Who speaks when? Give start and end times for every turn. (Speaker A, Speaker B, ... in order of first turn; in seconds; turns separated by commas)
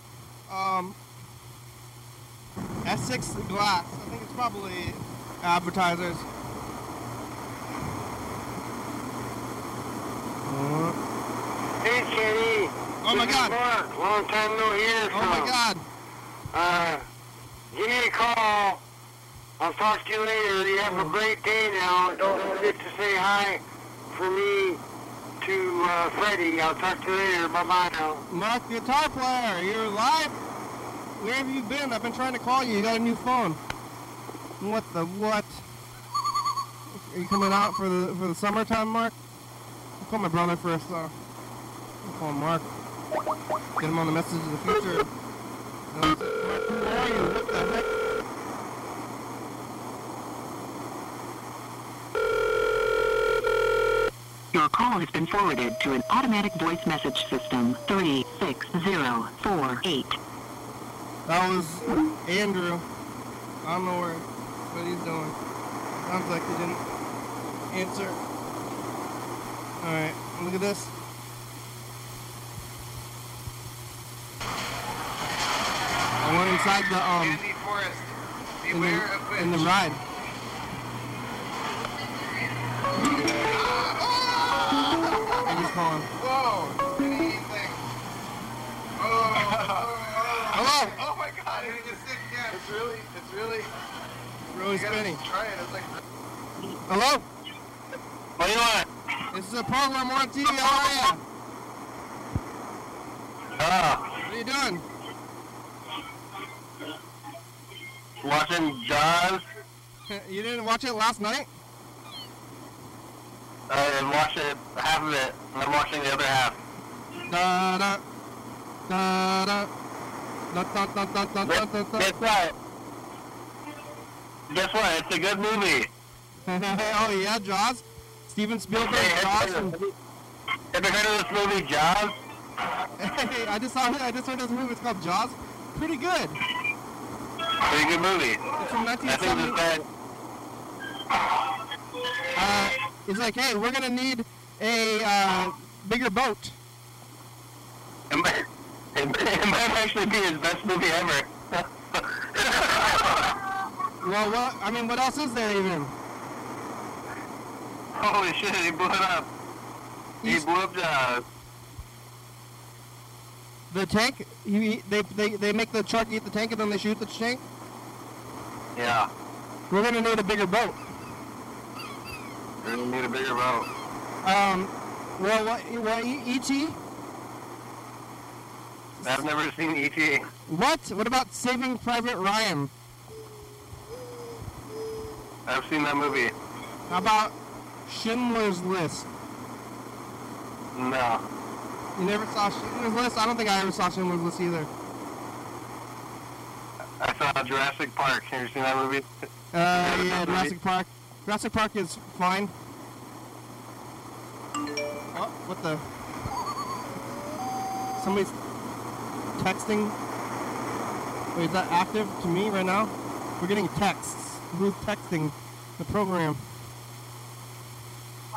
Speaker A: 0.5-1.0, Speaker A: 2.8-6.2, Speaker A: 10.4-11.0, Speaker B: 11.8-15.6, Speaker A: 13.0-13.6, Speaker A: 15.1-15.8, Speaker B: 16.5-17.0, Speaker B: 17.7-18.8, Speaker B: 19.6-24.8, Speaker A: 20.8-21.1, Speaker B: 25.4-28.2, Speaker A: 28.3-30.4, Speaker A: 31.2-33.6, Speaker A: 34.6-35.6, Speaker A: 36.9-39.1, Speaker A: 40.0-41.1, Speaker A: 42.0-42.7, Speaker A: 43.8-45.1, Speaker A: 45.9-47.9, Speaker C: 54.5-60.2, Speaker A: 61.3-62.8, Speaker A: 63.6-65.3, Speaker A: 66.0-66.8, Speaker A: 67.7-68.2, Speaker A: 69.8-70.9, Speaker A: 76.2-77.4, Speaker D: 77.1-78.1, Speaker D: 78.6-79.8, Speaker A: 78.7-80.0, Speaker D: 83.0-87.8, Speaker A: 85.5-86.1, Speaker D: 89.0-93.7, Speaker A: 90.5-91.0, Speaker A: 94.5-95.2, Speaker D: 94.6-96.0, Speaker A: 96.9-97.2, Speaker E: 98.4-98.9, Speaker A: 99.3-101.2, Speaker E: 103.6-104.0, Speaker A: 104.2-104.8, Speaker E: 108.2-109.4, Speaker A: 110.1-111.5, Speaker E: 113.7-116.6, Speaker A: 117.3-118.0, Speaker A: 118.9-119.7, Speaker A: 120.5-122.1, Speaker E: 121.4-122.5, Speaker E: 124.5-125.9, Speaker A: 126.5-129.7, Speaker E: 128.8-129.9, Speaker E: 130.7-132.1, Speaker A: 133.0-136.4, Speaker E: 137.6-138.4, Speaker A: 138.6-139.6, Speaker E: 139.0-139.8, Speaker A: 142.3-146.6, Speaker E: 148.1-153.4, Speaker A: 154.0-155.9, Speaker E: 157.9-159.3, Speaker E: 160.2-161.2, Speaker A: 163.7-167.4, Speaker E: 168.7-169.1, Speaker A: 169.7-170.8, Speaker E: 172.6-173.7, Speaker A: 174.2-176.8, Speaker A: 179.0-179.2, Speaker E: 179.0-180.3, Speaker A: 180.5-182.7, Speaker E: 185.4-186.3, Speaker A: 186.9-187.3, Speaker A: 187.9-189.1, Speaker E: 190.7-191.2, Speaker A: 191.9-194.7, Speaker E: 197.0-199.1, Speaker A: 199.5-202.5, Speaker E: 199.7-200.5, Speaker A: 205.1-205.8, Speaker A: 208.0-208.3, Speaker A: 209.4-209.9, Speaker A: 211.3-216.4